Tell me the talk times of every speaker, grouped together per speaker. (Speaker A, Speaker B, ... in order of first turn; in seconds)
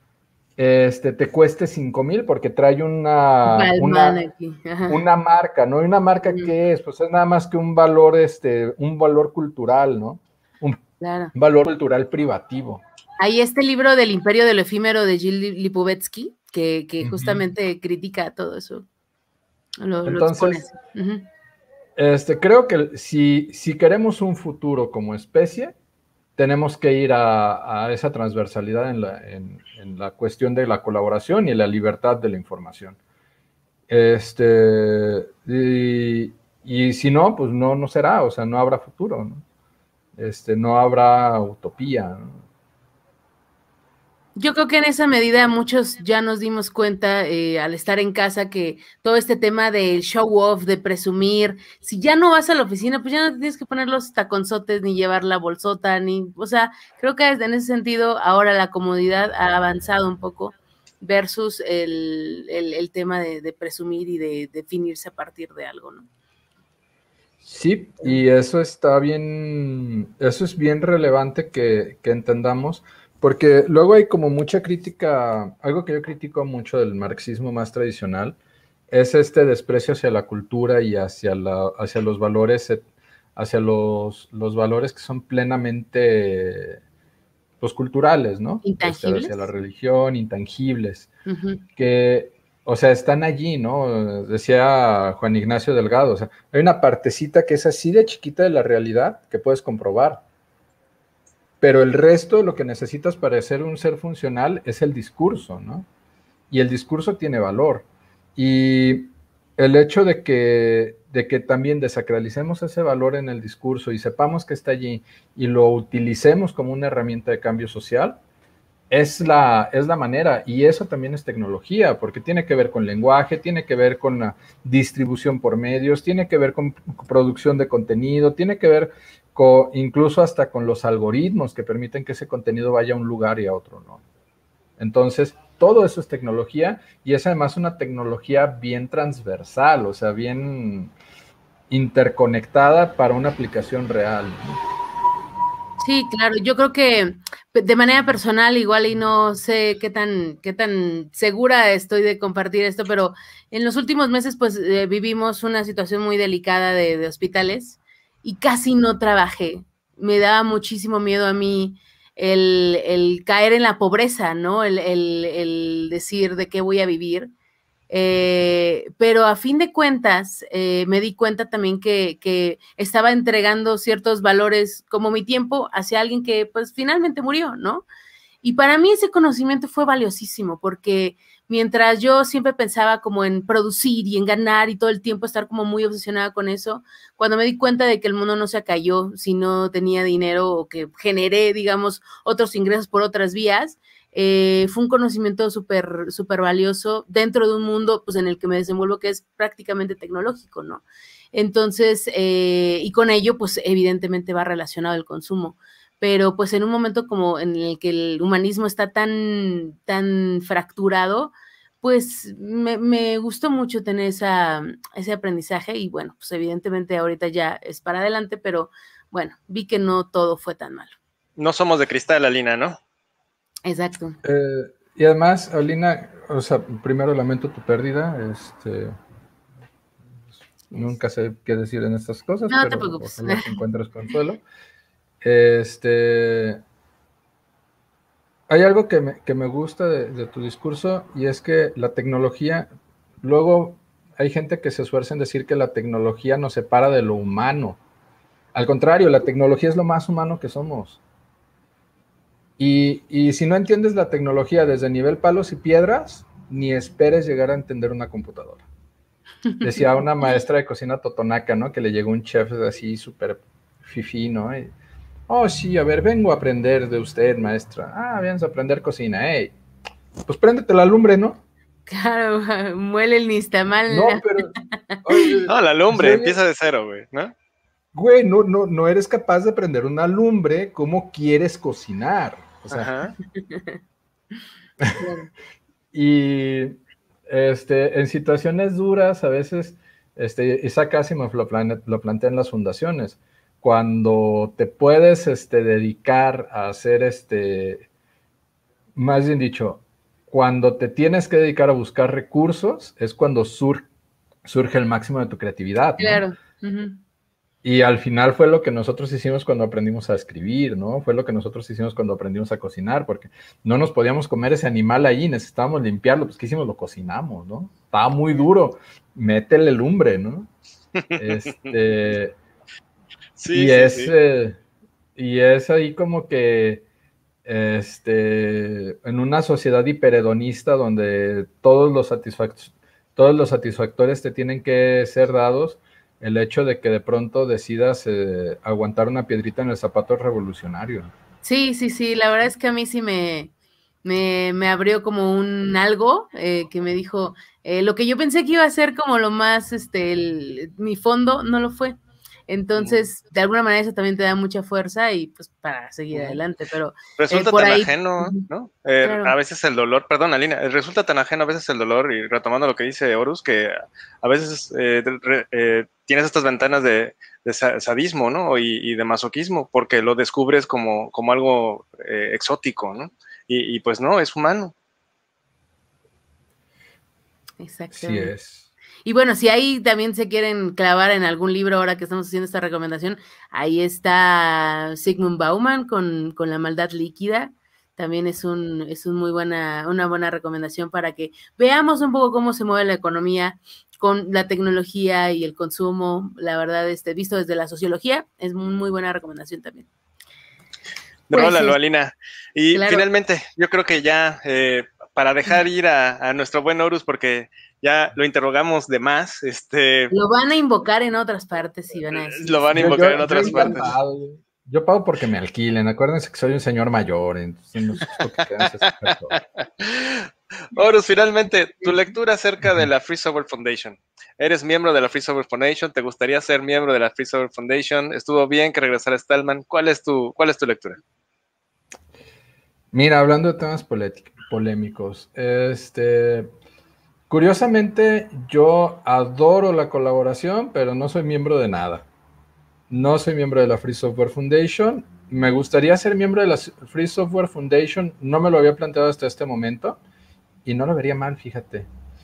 Speaker A: 0.6-4.2, 4.9-10.8, 11.3-12.8, 17.0-17.4, 20.0-20.6, 21.9-25.7, 26.4-33.0, 33.9-39.4, 40.1-42.4, 67.4-78.4, 78.9-82.8, 83.3-86.8, 87.6-91.1, 91.8-100.2, 101.6-105.9, 106.5-118.2, 118.9-134.0, 134.8-140.9, 141.7-144.6, 224.2-229.0, 230.7-234.4, 235.2-236.6, 238.5-242.7, 243.2-247.8, 248.5-251.0, 252.6-258.6, 259.6-264.7, 265.3-269.5, 270.2-271.4, 273.9-274.5, 275.0-276.4, 277.9-282.9, 285.9-297.9, 298.9-303.9, 304.4-306.2, 307.6-320.5, 321.2-322.4, 323.5-324.6, 325.1-326.9, 327.4-341.1, 377.9-378.7, 412.7-419.4, 432.9-436.5, 437.3-442.1, 442.9-450.0, 450.6-451.9
Speaker B: 3.4-5.0, 11.0-11.3, 13.2-18.8, 19.8-21.2, 44.4-66.1, 88.6-89.5, 91.2-91.6, 145.8-167.3, 167.9-177.8, 178.4-220.9, 223.7-224.2, 232.5-233.5, 271.9-275.4, 283.3-283.8, 285.0-285.3, 306.0-307.0, 341.4-343.5, 344.0-351.9, 352.5-358.5, 359.0-359.3, 377.6-378.3, 379.0-399.9, 401.3-401.8, 402.7-403.0, 410.1-413.9
Speaker C: 221.4-222.8, 275.5-277.3, 282.7-283.1, 321.0-321.4, 323.4-324.1, 356.1-356.4, 357.2-374.7, 401.3-410.1, 412.1-413.9, 419.1-431.0